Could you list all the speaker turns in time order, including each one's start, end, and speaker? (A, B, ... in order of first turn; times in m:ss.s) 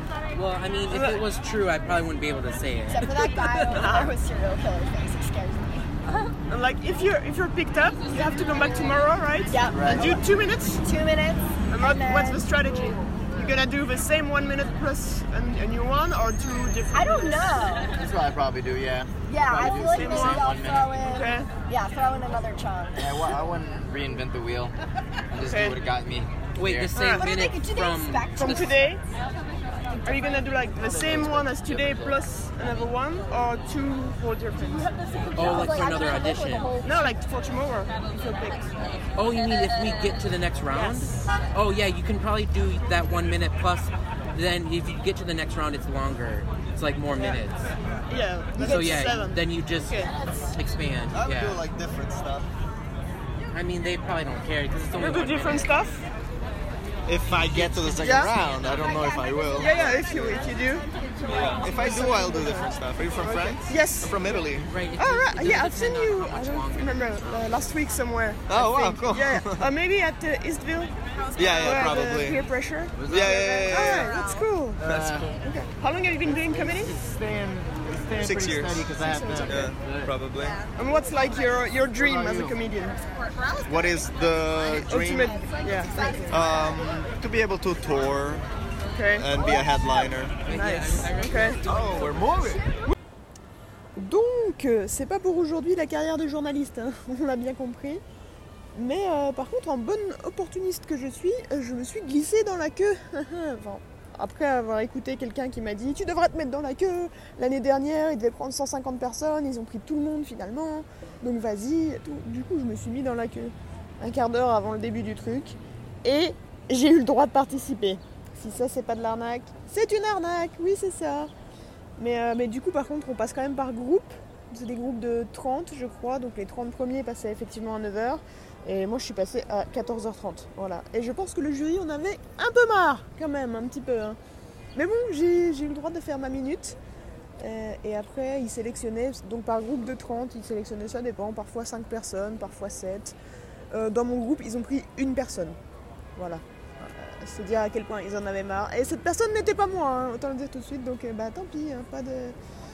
0:00.3-0:03.8 A
0:00.9-0:01.2 B
0:02.9-0:05.9 C
0:03.7-0:04.1 B
0:06.5-0:10.8 B
0:09.5-0:10.3 C
0:09.7-0:10.2 D
0:10.8-0:12.5 C
0:11.7-0:17.7 B
0:16.9-0:18.0 C
0:17.9-0:21.0 D
0:19.3-0:23.4 C
0:19.6-0:20.4 B
0:21.1-0:21.5 B
0:23.0-0:24.7 D
0:25.3-0:27.0 D
0:25.5-0:25.8 B
0:26.6-0:28.7 A
0:26.9-0:27.3 B
0:27.0-0:28.8 C
0:28.4-0:29.0 B
0:30.0-0:35.1 B
0:30.8-0:32.2 D
0:34.6-0:37.1 C
0:35.3-0:36.7 A
0:36.8-0:39.0 B
0:39.1-0:47.7 A
0:40.7-0:41.3 B
0:48.1-0:50.1 B
0:48.6-0:51.6 A
0:51.1-0:52.5 E
0:53.5-0:55.7 A
0:55.0-0:56.0 B
0:57.0-1:00.4 E
0:57.6-0:57.9 A
0:58.0-0:58.4 B
0:58.6-1:02.5 C
0:59.5-1:00.9 B
1:01.3-1:04.7 E
1:01.6-1:04.3 B
1:04.6-1:07.7 A
1:05.0-1:10.9 B
1:08.5-1:09.7 E
1:11.4-1:12.4 E
1:11.6-1:14.8 B
1:13.0-1:13.3 A
1:13.0-1:14.1 E
1:13.4-1:14.4 C
1:14.8-1:15.3 D
1:14.8-1:15.3 E
1:15.4-1:17.0 B
1:16.4-1:20.1 D
1:18.2-1:20.6 E
1:19.0-1:19.7 B
1:20.8-1:23.0 B
1:22.0-1:22.6 D
1:23.3-1:26.9 C
1:23.6-1:25.4 E
1:24.9-1:26.5 B
1:26.3-1:28.5 E
1:28.9-1:29.3 B
1:29.1-1:30.5 E
1:29.3-1:29.7 C
1:30.4-1:32.4 A
1:30.5-1:31.6 B
1:31.7-1:32.6 E
1:33.9-1:38.0 B
1:38.7-2:01.3 B
2:02.0-2:14.2 B
2:14.7-2:16.8 B
2:17.4-2:23.1 B
2:23.7-2:25.6 B
2:26.2-2:32.3 B